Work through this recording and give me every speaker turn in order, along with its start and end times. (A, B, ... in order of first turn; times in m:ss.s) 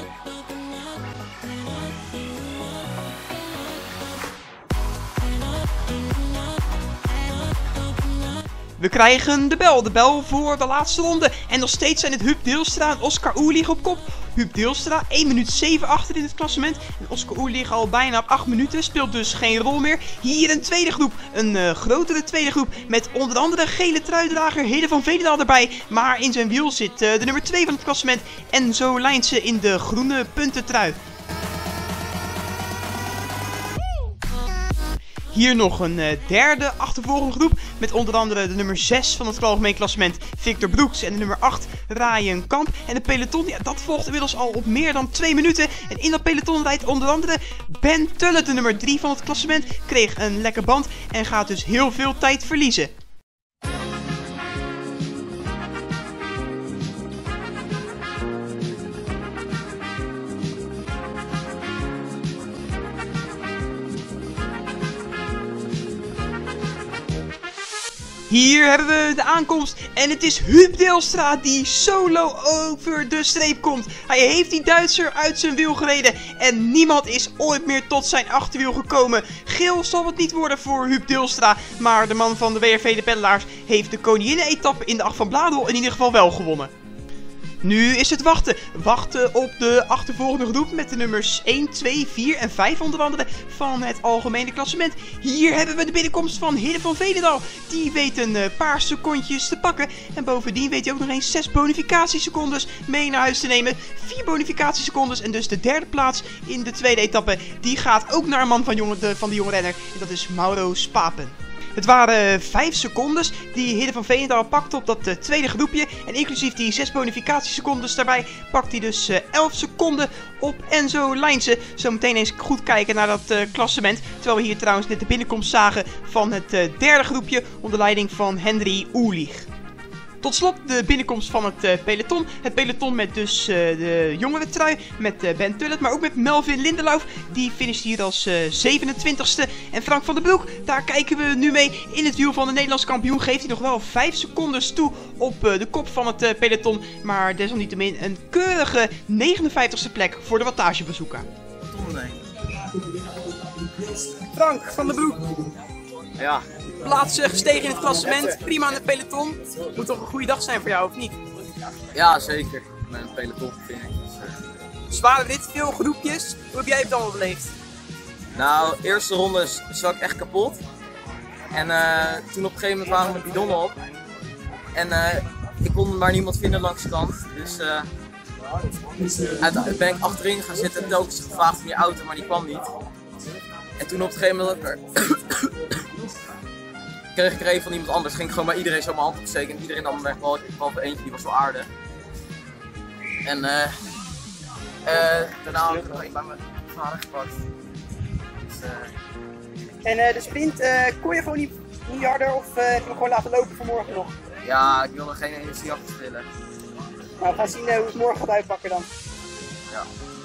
0:08.8-0:31.0 A
0:35.3-0:52.9 A
1:08.3-1:26.7 A
1:27.6-2:09.5 A
2:10.2-2:31.3 A
2:31.7-2:32.2 B
2:34.3-2:35.3 A
2:36.2-2:36.4 B
2:36.8-2:41.2 A
2:41.9-2:44.3 B
2:44.9-2:47.5 A
2:48.3-2:50.6 B
2:51.5-2:53.8 B
2:54.7-2:57.9 B
2:59.1-3:02.7 B
3:03.8-3:05.8 B
3:07.1-3:11.7 B
3:13.2-3:13.7 B
3:14.8-3:17.4 B
3:18.5-3:18.9 B
3:19.8-3:24.1 A
3:24.4-3:26.3 B
3:27.2-3:28.9 A